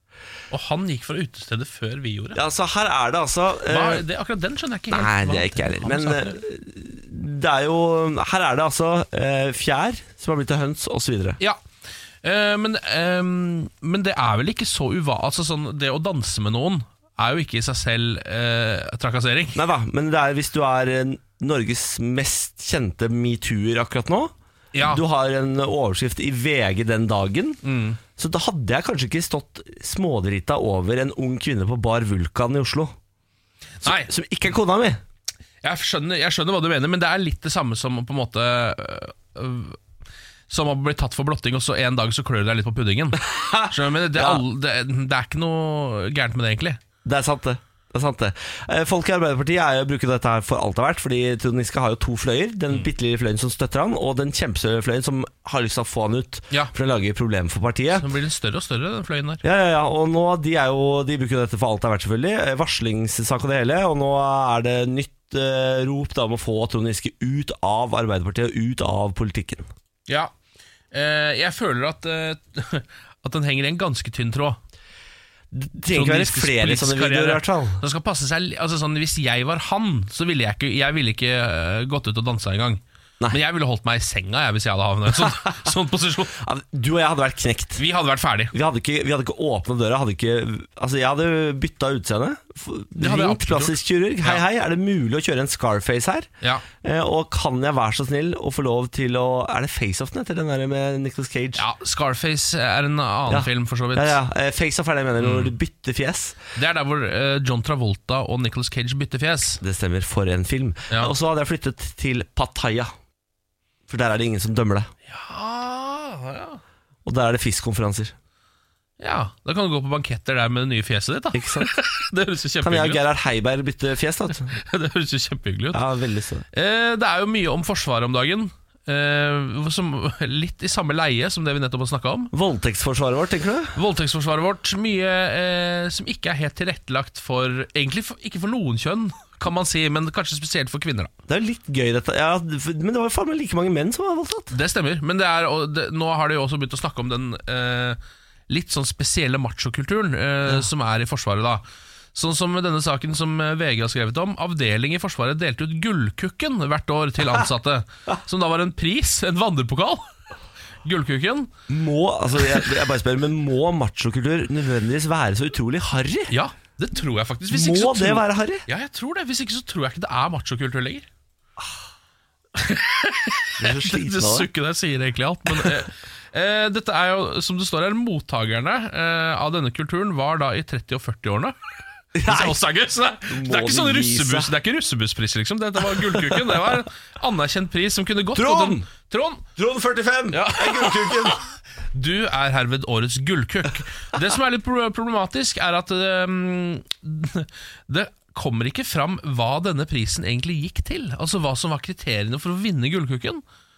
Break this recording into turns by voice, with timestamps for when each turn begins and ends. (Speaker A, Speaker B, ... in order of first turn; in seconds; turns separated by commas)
Speaker A: 0.5-2.4, Speaker B: 2.4-4.0, Speaker A: 3.7-6.4, Speaker B: 4.9-11.4, Speaker A: 12.2-19.6, Speaker B: 19.6-27.6, Speaker A: 24.7-25.0, Speaker A: 27.6-28.0, Speaker B: 28.2-32.9, Speaker A: 33.8-34.1, Speaker B: 33.8-35.0, Speaker A: 35.6-39.8, Speaker A: 40.5-46.8, Speaker B: 43.3-44.4, Speaker B: 47.0-58.1, Speaker A: 58.0-59.4, Speaker B: 59.4-69.7, Speaker A: 70.9-74.6, Speaker B: 75.5-77.8, Speaker A: 75.9-86.4, Speaker B: 86.4-87.8, Speaker A: 87.8-88.5, Speaker B: 88.5-96.3, Speaker A: 93.0-94.4, Speaker B: 96.8-101.7, Speaker A: 101.6-104.2, Speaker B: 103.3-106.4, Speaker A: 105.2-105.5, Speaker A: 106.6-109.6, Speaker B: 109.6-112.9, Speaker B: 113.9-114.9, Speaker A: 115.1-116.6, Speaker B: 117.0-118.1, Speaker A: 119.0-123.0, Speaker B: 121.3-121.7, Speaker B: 122.6-124.5, Speaker A: 124.5-125.8, Speaker B: 125.7-126.5, Speaker A: 126.5-132.3, Speaker B: 132.3-133.8, Speaker A: 133.8-141.1, Speaker B: 141.3-144.6, Speaker A: 144.5-151.6, Speaker A: 152.2-160.1, Speaker A: 160.8-161.5, Speaker B: 161.7-166.3, Speaker A: 166.3-171.1, Speaker B: 167.5-168.7, Speaker A: 172.6-181.6, Speaker B: 173.6-174.5, Speaker B: 182.2-182.6, Speaker A: 182.2-189.4, Speaker B: 183.3-184.5, Speaker B: 188.3-188.9, Speaker B: 189.6-191.4, Speaker A: 190.3-203.4